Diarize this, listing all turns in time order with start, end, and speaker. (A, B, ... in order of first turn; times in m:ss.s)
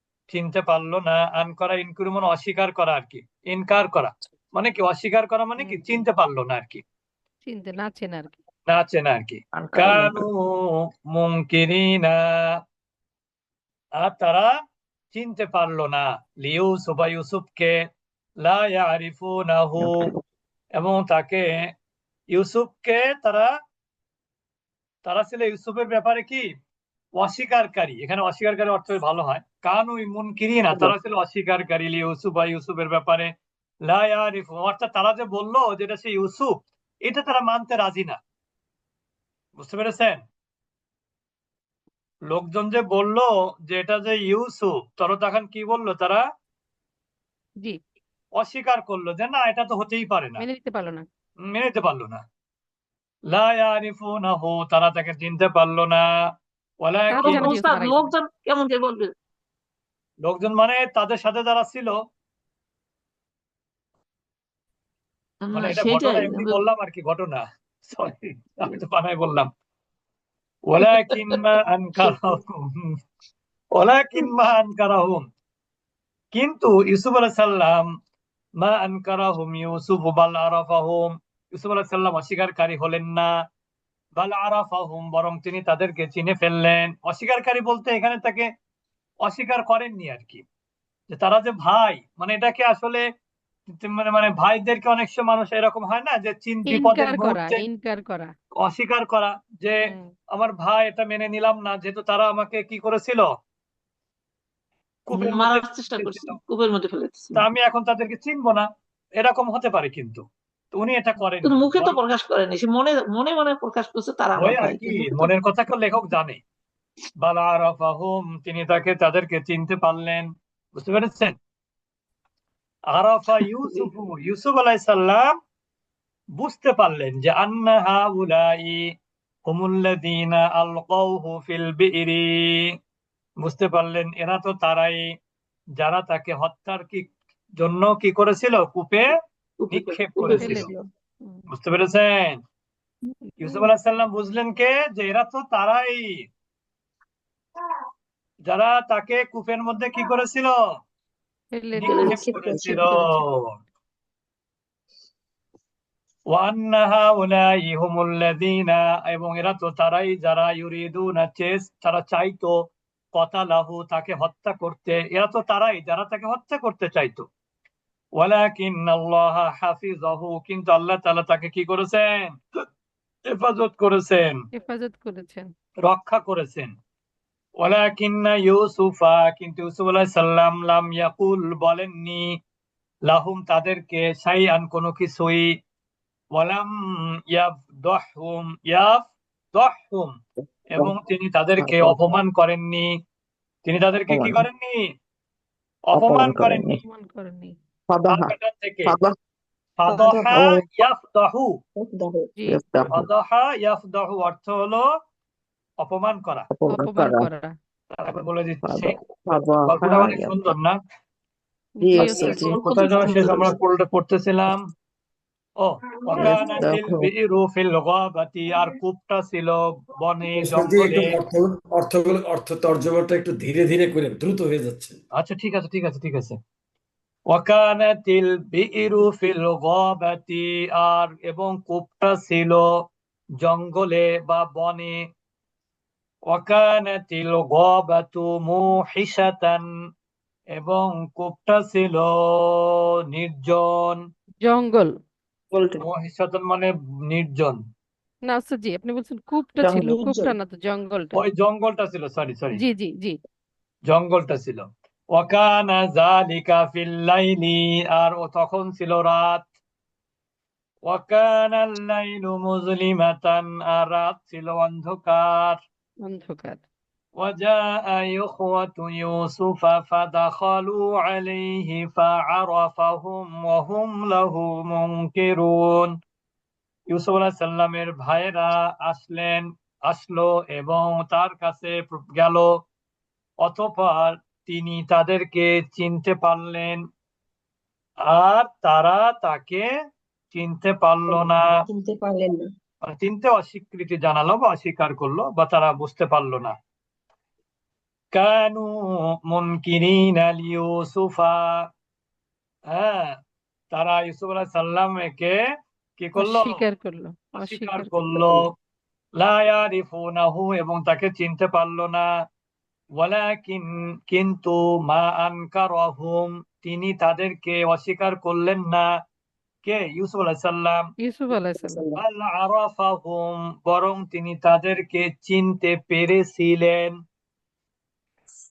0:00.3-0:06.8 A
0:05.6-0:06.0 B
0:07.4-0:08.4 B
0:08.7-0:12.6 A
0:09.6-0:10.2 C
0:14.0-0:14.5 A
0:15.1-0:17.7 A
0:18.4-0:20.0 A
0:19.8-0:20.2 C
0:20.8-0:21.4 A
0:22.3-0:23.5 A
0:25.0-0:26.5 A
0:27.2-0:33.3 A
0:33.9-0:38.2 A
0:39.6-0:40.2 A
0:42.3-0:46.2 A
0:48.4-0:50.4 A
0:50.4-0:51.0 B
0:51.4-0:52.2 A
0:53.3-0:56.0 A
0:56.8-0:57.5 A
0:57.1-0:58.1 B
0:57.2-0:59.1 D
1:00.2-1:02.0 A
1:05.4-1:06.6 D
1:05.5-1:09.5 A
1:10.7-1:12.9 A
1:13.8-1:15.2 A
1:16.3-1:17.8 A
1:18.6-1:23.3 A
1:24.2-1:28.5 A
1:29.2-1:30.4 A
1:31.1-1:33.0 A
1:33.7-1:37.6 A
1:36.6-1:38.3 B
1:38.6-1:43.3 A
1:39.8-1:40.1 B
1:45.1-1:46.4 A
1:45.1-1:47.4 D
1:47.3-1:48.6 A
1:49.2-1:52.0 A
1:51.4-1:55.3 D
1:54.4-1:56.4 A
1:57.2-2:01.4 A
2:02.9-2:05.3 A
2:06.4-2:08.8 A
2:09.5-2:12.7 A
2:13.4-2:15.0 A
2:15.8-2:17.0 A
2:17.6-2:19.1 A
2:19.6-2:20.7 D
2:19.7-2:20.7 A
2:20.4-2:20.8 E
2:21.5-2:22.4 A
2:23.4-2:23.7 B
2:23.4-2:26.2 A
2:28.4-2:30.6 A
2:31.5-2:32.0 B
2:31.7-2:33.5 A
2:31.8-2:32.2 D
2:31.9-2:32.9 E
2:32.6-2:33.3 B
2:36.3-2:42.5 A
2:43.1-2:47.2 A
2:48.2-2:52.3 A
2:53.3-2:54.4 A
2:54.5-2:55.5 B
2:55.8-2:56.7 A
2:57.6-3:02.2 A
3:03.1-3:05.5 A
3:06.3-3:06.7 A
3:07.3-3:09.0 A
3:09.5-3:10.1 A
3:10.7-3:12.9 A
3:11.6-3:12.2 C
3:13.6-3:14.9 A
3:14.1-3:14.4 C
3:15.9-3:16.7 A
3:15.9-3:16.8 C
3:16.8-3:17.6 B
3:17.9-3:18.3 C
3:18.1-3:19.0 A
3:18.8-3:19.1 C
3:19.8-3:21.6 A
3:19.9-3:20.4 E
3:20.3-3:20.6 C
3:21.8-3:22.3 E
3:22.4-3:22.6 B
3:22.5-3:23.1 C
3:22.9-3:24.8 A
3:25.8-3:26.5 A
3:26.5-3:27.3 C
3:26.7-3:27.5 B
3:27.9-3:29.0 A
3:28.6-3:30.5 C
3:29.6-3:30.8 A
3:31.8-3:32.6 B
3:31.8-3:32.6 C
3:32.0-3:33.6 D
3:32.5-3:34.6 A
3:35.6-3:41.2 A
3:36.1-3:36.4 D
3:36.2-3:37.1 C
3:40.4-3:45.0 F
3:45.1-3:46.4 A
3:47.3-3:52.6 A
3:53.4-3:55.0 A
3:56.3-3:59.6 A
4:00.6-4:04.0 A
4:04.4-4:04.9 B
4:05.5-4:05.8 C
4:05.8-4:07.6 A
4:08.2-4:11.2 B
4:09.6-4:10.4 E
4:11.1-4:12.6 A
4:12.5-4:13.2 B
4:13.8-4:19.5 A
4:20.8-4:25.6 A
4:26.0-4:26.6 B
4:27.2-4:35.9 A
4:36.9-4:42.5 A
4:43.4-4:46.8 A
4:48.1-4:49.6 A
4:50.3-4:51.5 A
4:51.1-4:52.4 E
4:52.8-4:56.5 A
4:58.1-4:58.8 A
4:59.3-5:01.4 A
5:02.7-5:03.2 A
5:03.7-5:05.4 A
5:06.0-5:06.6 A
5:06.2-5:08.4 B
5:07.4-5:08.4 A
5:09.2-5:12.0 A
5:13.0-5:18.8 A
5:19.6-5:20.8 A
5:21.0-5:21.8 B
5:21.6-5:22.0 C
5:22.0-5:26.9 A